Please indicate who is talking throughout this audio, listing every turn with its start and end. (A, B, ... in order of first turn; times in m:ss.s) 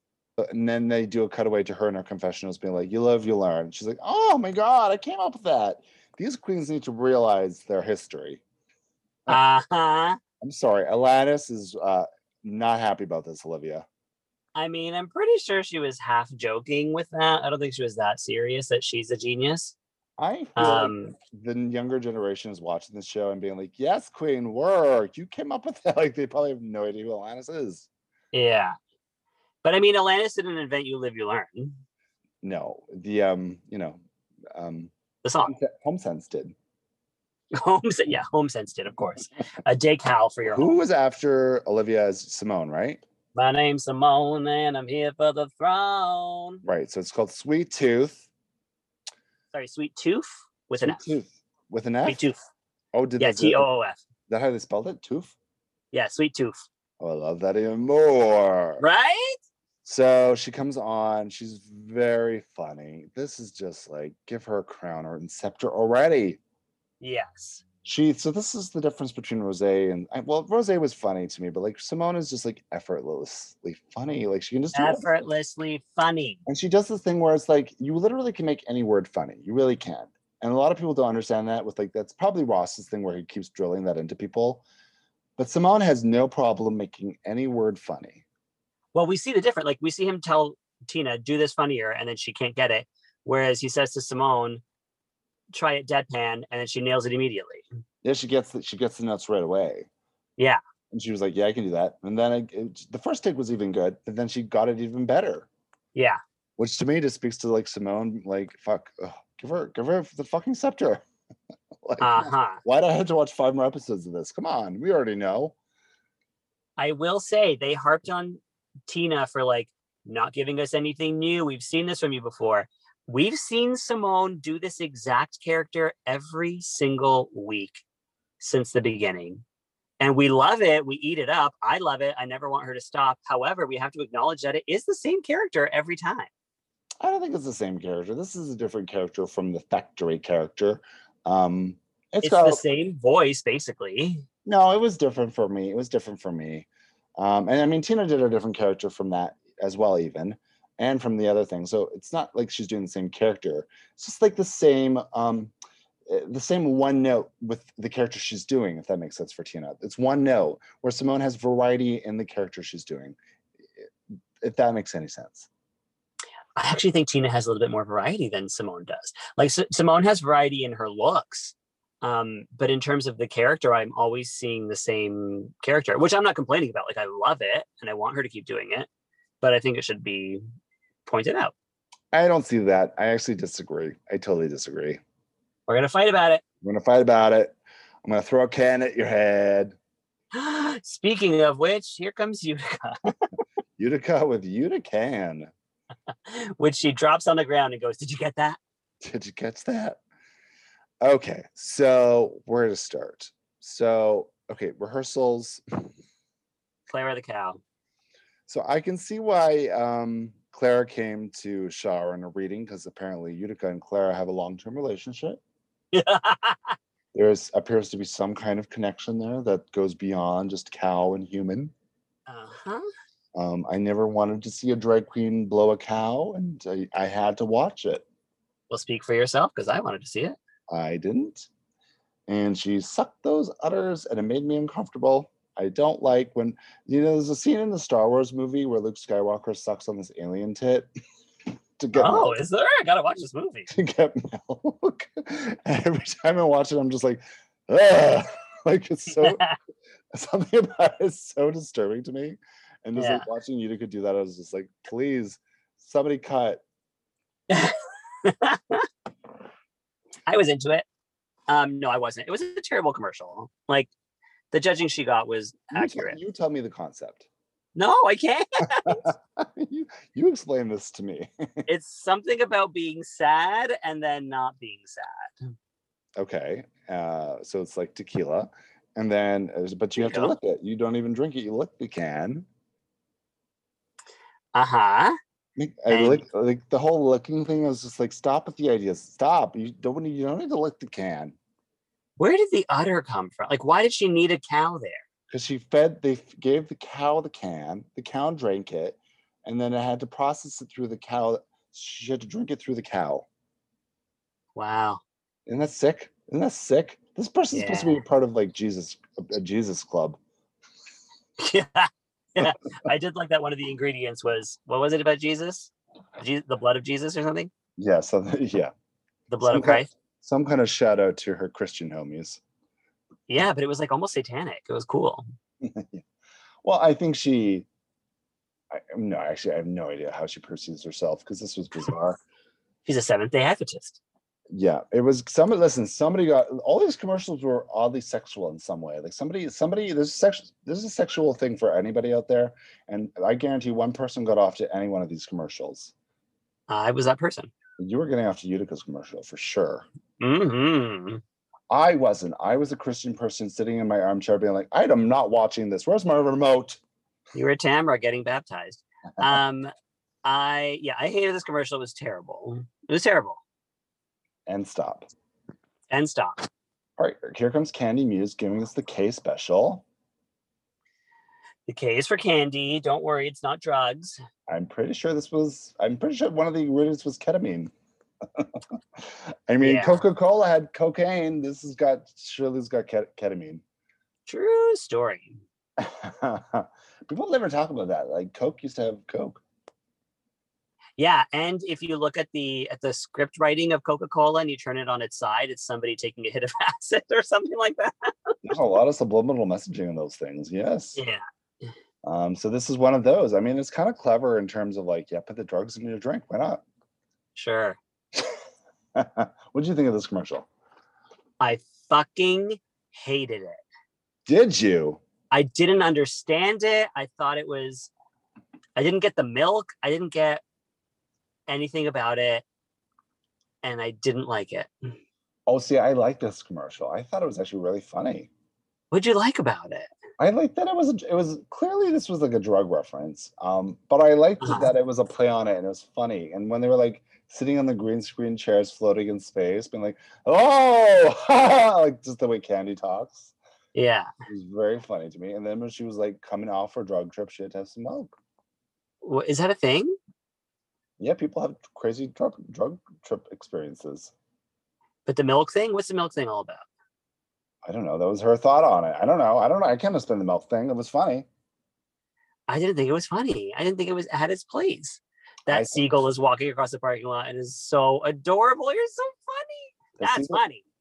0:00.4-0:08.4 A
0:09.3-0:10.2 B
0:10.4-0:13.9 A
0:14.6-0:19.7 B
0:20.2-0:27.9 A
0:20.6-0:21.2 B
0:28.3-0:28.8 B
0:29.6-0:31.8 B
0:32.4-0:34.0 A
0:34.5-0:34.9 A
0:35.2-0:35.5 B
0:35.4-0:36.5 A
0:37.5-0:40.7 B
0:40.4-0:43.0 A
0:43.4-0:46.6 B
0:46.6-0:48.3 A
0:49.5-0:51.0 B
0:50.8-0:52.2 A
0:52.1-0:52.4 B
0:52.9-0:53.7 A
0:53.2-0:54.0 B
0:54.3-0:55.4 A
0:55.9-0:56.6 B
0:57.0-0:58.8 A
0:58.8-0:59.4 B
0:59.8-1:06.4 A
1:07.0-1:07.6 B
1:07.8-1:15.1 A
1:14.7-1:16.4 B
1:16.5-1:24.6 A
1:25.4-1:28.2 A
1:28.9-1:34.6 B
1:35.5-1:37.6 B
1:38.0-1:39.9 A
1:40.9-1:45.5 A
1:45.9-1:46.2 B
1:46.6-1:51.0 A
1:51.8-1:55.5 A
1:52.0-1:52.6 B
1:56.8-2:07.8 B
2:08.4-2:09.4 B
2:10.0-2:16.3 B
2:17.0-2:22.6 A
2:22.2-2:24.2 B
2:24.4-2:26.7 A
2:27.2-2:35.5 A
2:36.1-2:43.2 A
2:44.4-2:45.5 A
2:46.6-2:58.9 B
2:59.4-3:00.4 B
3:01.1-3:01.5 B
3:02.1-3:05.0 A
3:05.7-3:06.4 B
3:06.6-3:09.8 A
3:10.3-3:13.2 B
3:13.8-3:15.5 A
3:16.2-3:18.6 B
3:19.0-3:20.0 A
3:21.0-3:25.6 A
3:26.9-3:27.6 B
3:28.5-3:35.4 A
3:35.9-3:36.8 B
3:37.1-3:41.7 A
3:42.3-3:42.9 B
3:43.4-3:48.0 A
3:48.7-3:50.4 B
3:50.7-3:51.5 A
3:52.3-4:00.9 A
4:01.8-4:02.4 A
4:01.9-4:03.7 B
4:03.7-4:09.4 A
4:09.2-4:09.6 B
4:10.1-4:16.6 A
4:13.0-4:13.2 B
4:17.5-4:18.9 B
4:20.3-4:20.8 B
4:21.5-4:23.9 B
4:24.5-4:26.2 B
4:25.7-4:27.2 A
4:27.7-4:29.1 B
4:28.7-4:31.7 A
4:31.7-4:35.5 B
4:36.2-4:42.4 A
4:40.0-4:40.3 B
4:44.5-4:45.2 B
4:45.6-4:51.3 A
4:45.9-4:46.2 B
4:52.2-4:55.0 B
4:55.3-5:03.2 A
5:04.6-5:05.0 B
5:05.4-5:10.2 A
5:07.5-5:08.0 B
5:11.4-5:17.5 B
5:17.8-5:18.7 A
5:19.3-5:19.9 B
5:19.4-5:22.4 A
5:23.3-5:25.2 B
5:25.6-5:26.0 A
5:26.6-5:27.7 A
5:28.7-5:32.2 A
5:32.8-5:34.0 B
5:34.5-5:45.9 A
5:46.7-5:47.5 B
5:47.8-5:49.8 A
5:50.2-5:51.2 B
5:51.7-5:56.8 A
5:57.3-5:59.7 B
6:00.2-6:03.4 B
6:04.5-6:05.1 A
6:05.9-6:06.5 B
6:07.0-6:09.8 A
6:11.7-6:14.2 B
6:14.5-6:17.7 A
6:18.4-6:23.6 A
6:19.6-6:20.0 B
6:24.3-6:25.4 B
6:25.8-6:29.4 A
6:31.0-6:38.6 B
6:38.4-6:41.0 A
6:41.0-6:41.2 B
6:42.0-6:46.6 A
6:47.3-6:47.8 B
6:49.0-6:50.5 A
6:51.4-6:53.6 B
6:54.3-6:55.0 A
6:55.3-6:57.9 B
6:58.8-7:00.4 B
7:01.5-7:02.4 B
7:03.6-7:04.9 B
7:05.5-7:08.3 A
7:08.9-7:09.9 B
7:10.2-7:23.3 A
7:14.4-7:14.7 B
7:23.7-7:24.1 B
7:24.3-7:28.1 A
7:29.0-7:30.0 B
7:31.0-7:34.1 A
7:35.0-7:36.6 B
7:37.6-7:41.3 A
7:42.5-7:50.6 B
7:45.5-7:45.8 A
7:50.0-7:50.4 A